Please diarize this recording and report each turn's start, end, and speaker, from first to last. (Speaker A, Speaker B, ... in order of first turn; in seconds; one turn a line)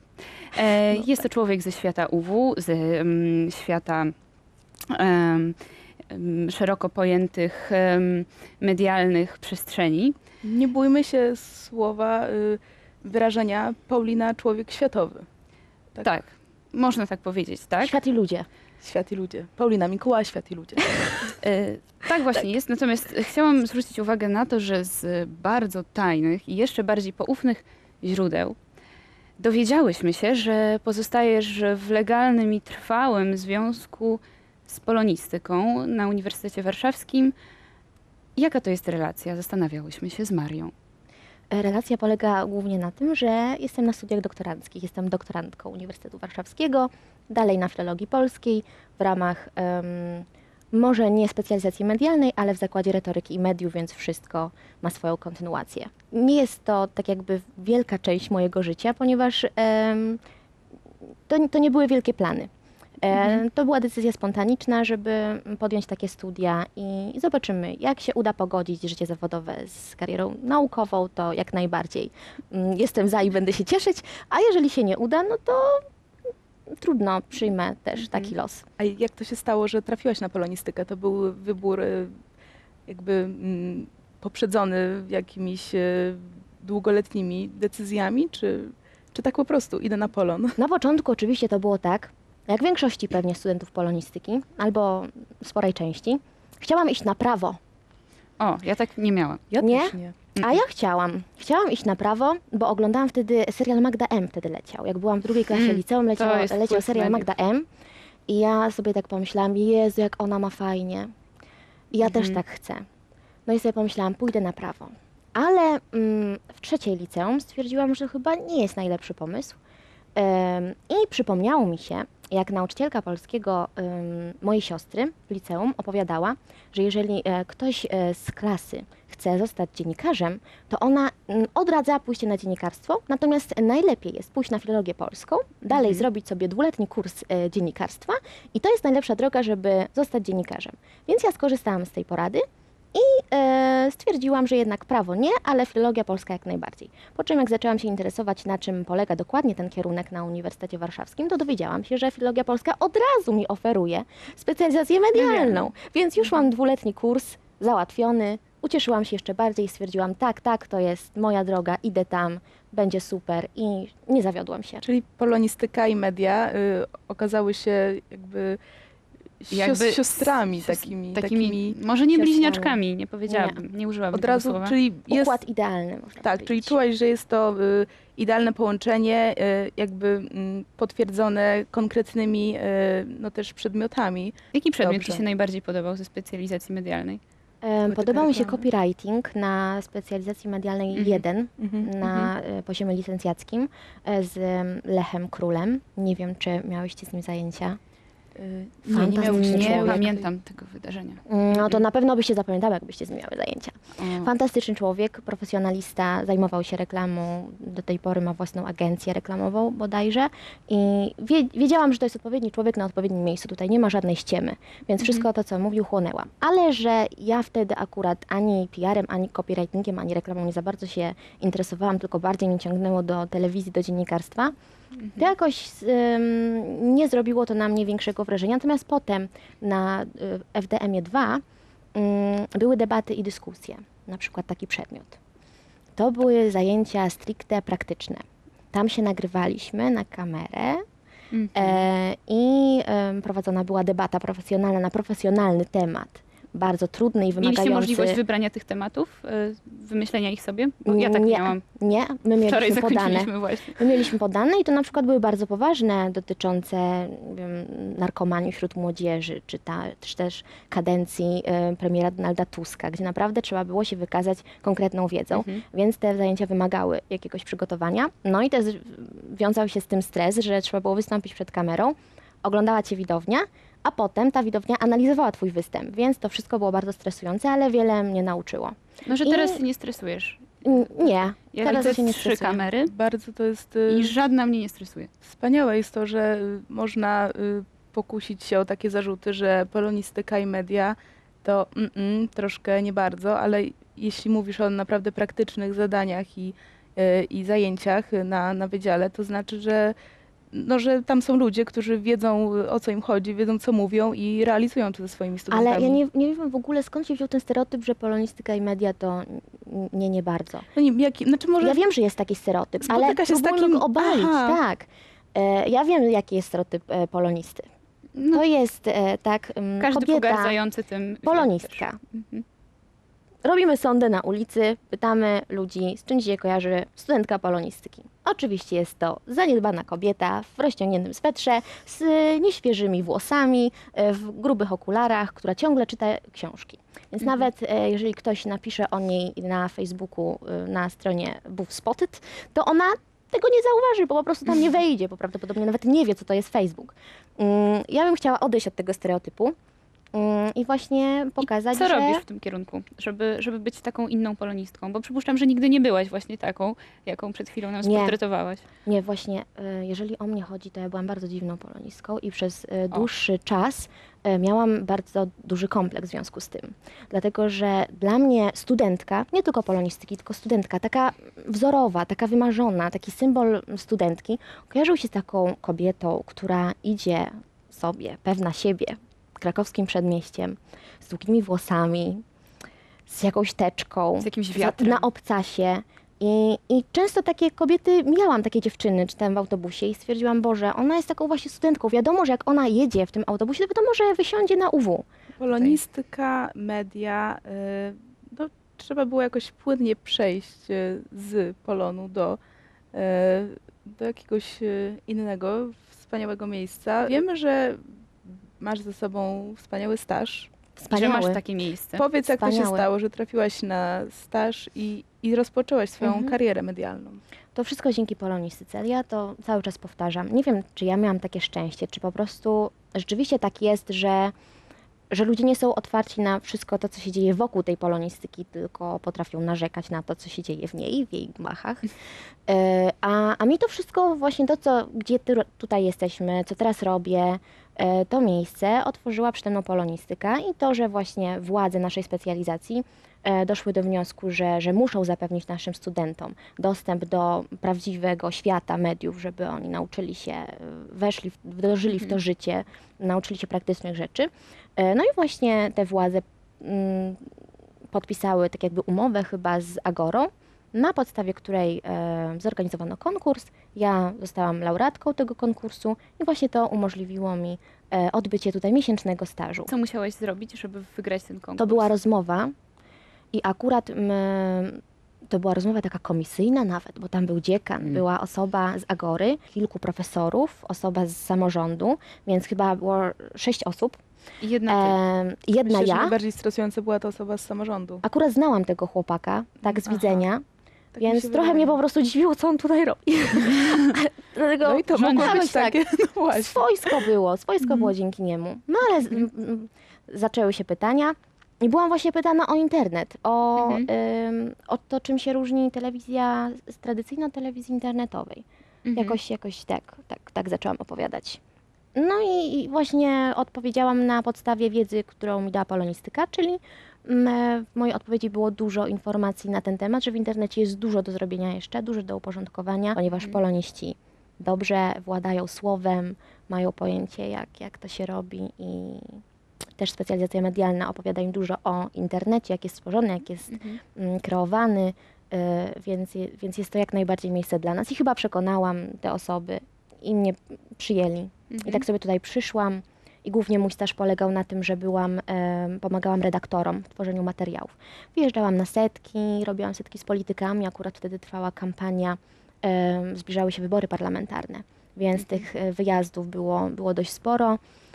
Speaker A: 0.4-4.1
Speaker A: 4.9-5.6
Speaker A: 6.1-10.2
Speaker B: 10.4-15.3
Speaker A: 16.0-17.9
Speaker C: 17.8-18.5
Speaker B: 18.8-21.3
Speaker A: 21.4-28.6
Speaker A: 29.4-37.3
Speaker A: 38.4-40.7
Speaker C: 41.5-60.2
Speaker C: 61.3-62.5
Speaker C: 63.0-75.8
Speaker C: 76.7-78.7
Speaker B: 78.8-82.2
Speaker B: 82.9-90.6
Speaker C: 90.6-97.6
Speaker A: 98.4-99.5
Speaker B: 99.5-100.2
Speaker C: 99.6-107.7
Speaker A: 105.5-107.3
Speaker C: 108.3-111.1
Speaker C: 111.9-112.9
Speaker A: 112.0-112.4
Speaker C: 113.5-119.6
Speaker C: 120.2-164.8
Speaker A: 135.7-136.0
Speaker A: 155.2-155.5
Speaker B: 164.8-168.6
Speaker B: 169.4-171.8
Speaker A: 169.5-174.8
Speaker C: 172.1-173.6
Speaker B: 174.1-175.4
Speaker C: 175.1-176.8
Speaker B: 176.2-185.2
Speaker A: 184.5-187.2
Speaker C: 187.6-197.8
Speaker B: 187.9-188.7
Speaker A: 190.9-191.2
Speaker B: 191.6-191.9
Speaker A: 192.0-192.3
Speaker B: 198.4-200.3
Speaker A: 198.9-201.8
Speaker C: 198.9-200.2
Speaker C: 201.3-224.6
Speaker A: 204.0-204.3
Speaker C: 225.1-231.4
Speaker C: 231.9-235.2
Speaker C: 236.0-240.8
Speaker A: 241.3-241.8
Speaker C: 241.6-248.2
Speaker A: 247.4-251.6
Speaker C: 250.9-279.6
Speaker A: 252.5-253.9
Speaker A: 265.3-265.6
Speaker A: 279.1-282.9
Speaker C: 280.6-282.6
Speaker B: 282.9-284.1
Speaker A: 283.9-285.1
Speaker B: 285.2-300.0
Speaker B: 300.5-306.0
Speaker C: 305.5-310.7
Speaker B: 310.7-311.8
Speaker C: 311.6-317.7
Speaker B: 312.9-314.6
Speaker A: 318.2-318.4
Speaker C: 318.2-320.6
Speaker A: 319.8-322.4
Speaker C: 321.2-322.0
Speaker C: 323.4-349.6
Speaker C: 350.1-352.2
Speaker A: 351.7-358.6
Speaker C: 357.8-358.1
Speaker C: 358.8-382.2
Speaker C: 383.1-395.1
Speaker A: 384.2-385.1
Speaker B: 395.4-402.4
Speaker B: 402.9-410.5
Speaker C: 410.8-411.4
Speaker A: 410.9-412.1
Speaker B: 411.9-417.2
Speaker C: 412.3-412.9
Speaker C: 416.0-416.3
Speaker C: 417.6-424.3
Speaker C: 425.1-431.9
Speaker C: 432.5-457.3
Speaker C: 457.9-469.7
Speaker A: 469.7-471.9
Speaker C: 471.6-472.5
Speaker C: 473.3-484.0
Speaker A: 484.4-485.0
Speaker C: 484.7-486.1
Speaker B: 485.6-488.0
Speaker C: 488.0-490.4
Speaker B: 489.9-490.2
Speaker B: 490.9-491.8
Speaker C: 491.0-495.8
Speaker A: 493.5-493.9
Speaker B: 494.6-497.1
Speaker A: 494.9-495.4
Speaker C: 496.3-511.4
Speaker A: 503.6-503.9
Speaker A: 508.9-509.2
Speaker C: 511.9-529.2
Speaker C: 529.8-557.6
Speaker A: 533.5-533.8
Speaker A: 541.5-541.9